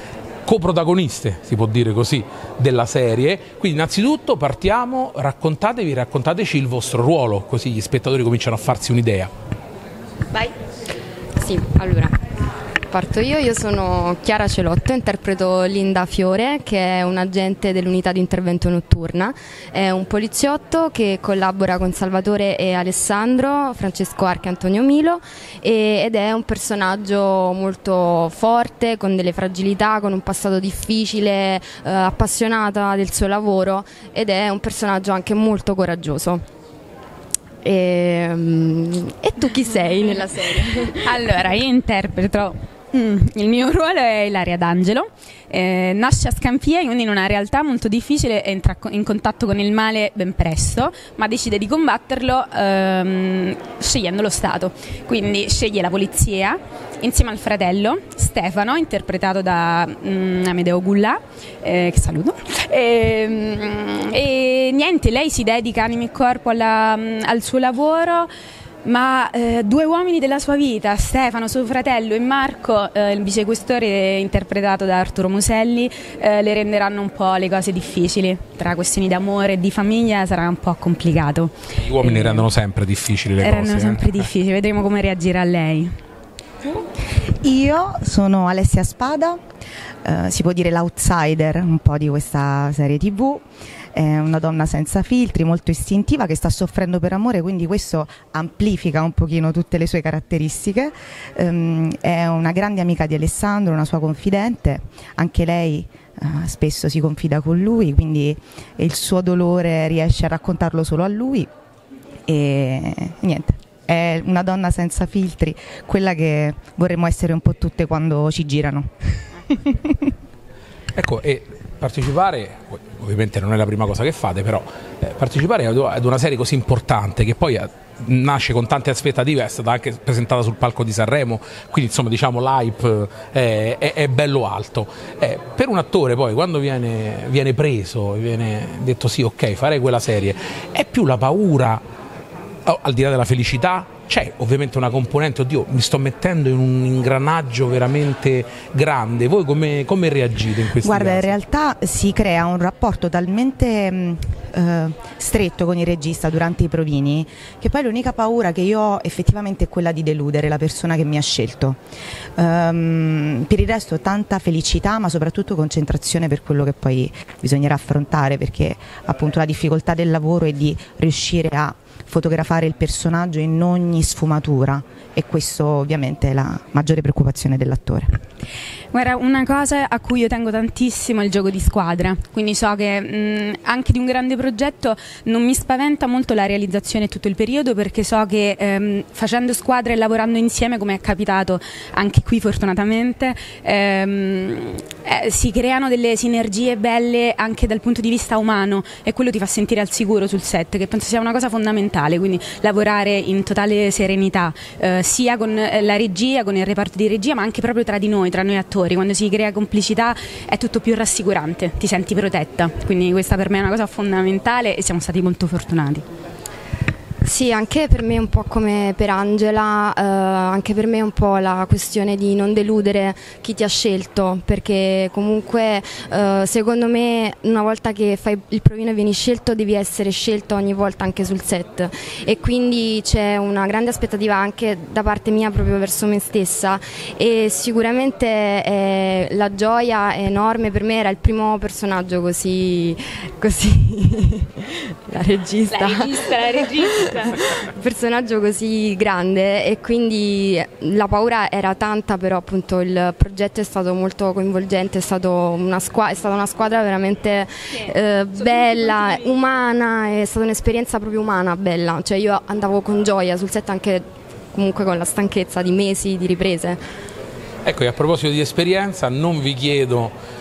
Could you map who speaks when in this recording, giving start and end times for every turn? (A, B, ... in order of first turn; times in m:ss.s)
0:00.4-0:09.3 A
0:11.4-0:12.2 B
0:12.9-0:36.4 B
0:37.6-0:41.0 B
0:41.0-1:08.3 C
1:08.8-1:22.4 C
1:21.8-1:24.2 A
1:23.4-1:25.9 C
1:27.4-1:29.4 D
1:30.0-1:51.5 D
1:52.3-1:58.9 D
1:59.5-2:00.1 D
2:00.9-2:21.8 A
2:22.6-2:31.3 A
2:30.8-2:41.8 D
2:42.4-2:58.1 D
2:58.9-3:36.0 C
3:37.2-4:26.8 B
4:05.7-4:07.4 C
4:27.6-4:30.1 A